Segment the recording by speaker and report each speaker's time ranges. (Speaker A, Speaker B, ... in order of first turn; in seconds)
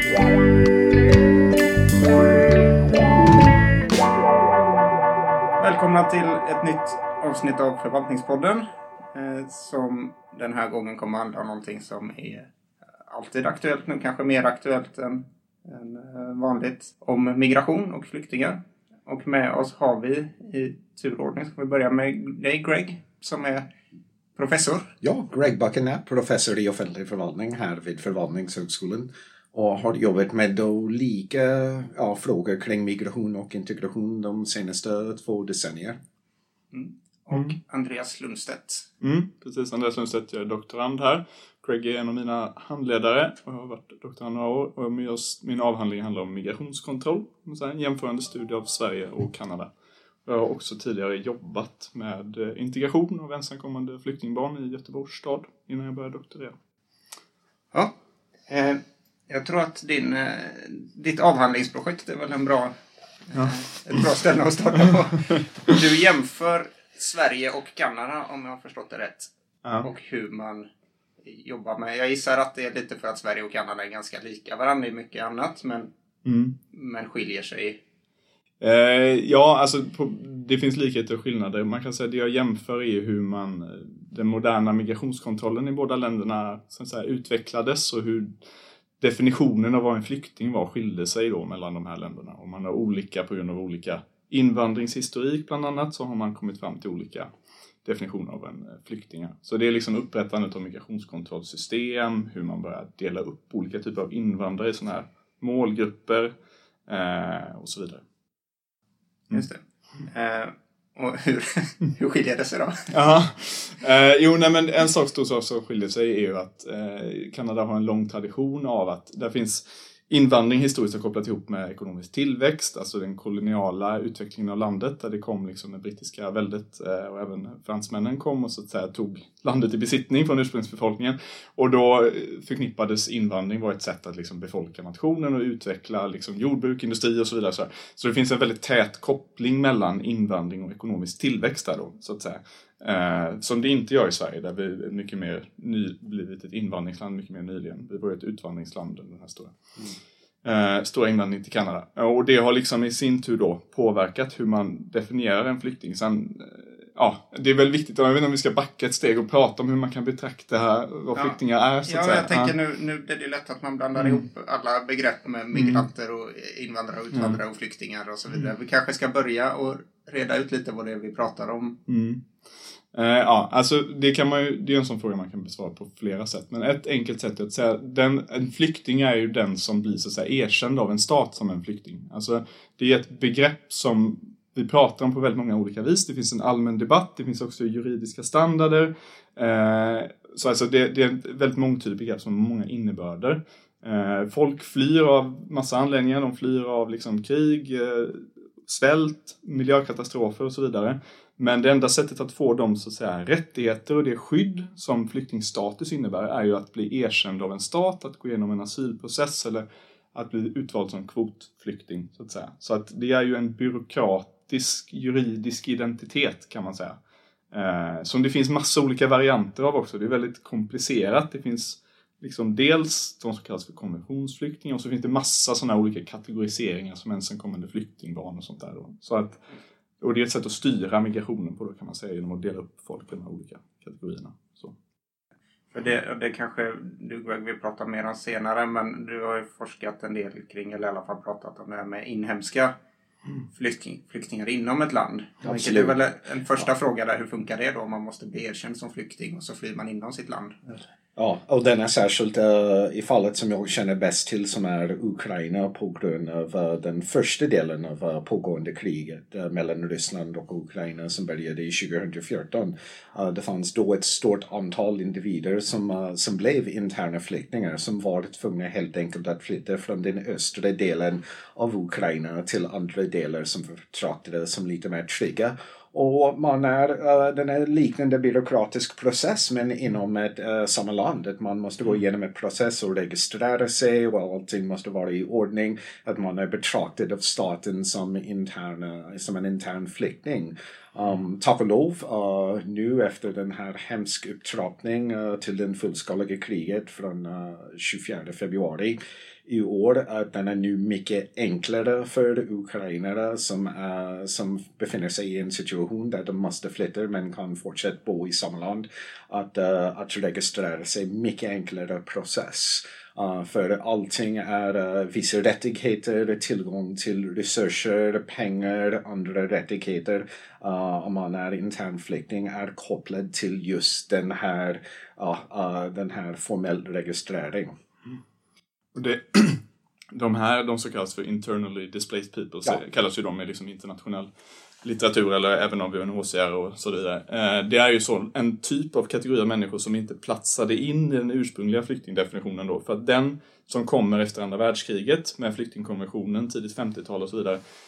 Speaker A: 5.6-12.5, 13.1-23.7, 24.4-24.9, 36.7-38.9, 58.5-62.7, 63.3-69.3, 69.8-70.7, 71.2-75.9, 76.7-77.8, 109.3-112.9, 161.1-171.8, 235.7-242.7, 243.5-250.8
Speaker B: 25.0-36.0, 245.4-246.0, 251.2-327.7
Speaker C: 39.0-49.7, 50.2-56.5, 76.2-76.5, 78.6-88.3, 89.0-97.3, 97.8-106.3, 106.9-108.0, 112.9-149.5, 150.4-162.5, 163.9-164.3, 165.5-165.8, 167.1-167.4, 171.9-172.2, 172.9-217.0, 217.5-229.4, 230.0-234.7, 328.9-329.6, 330.1-334.3, 334.8-347.6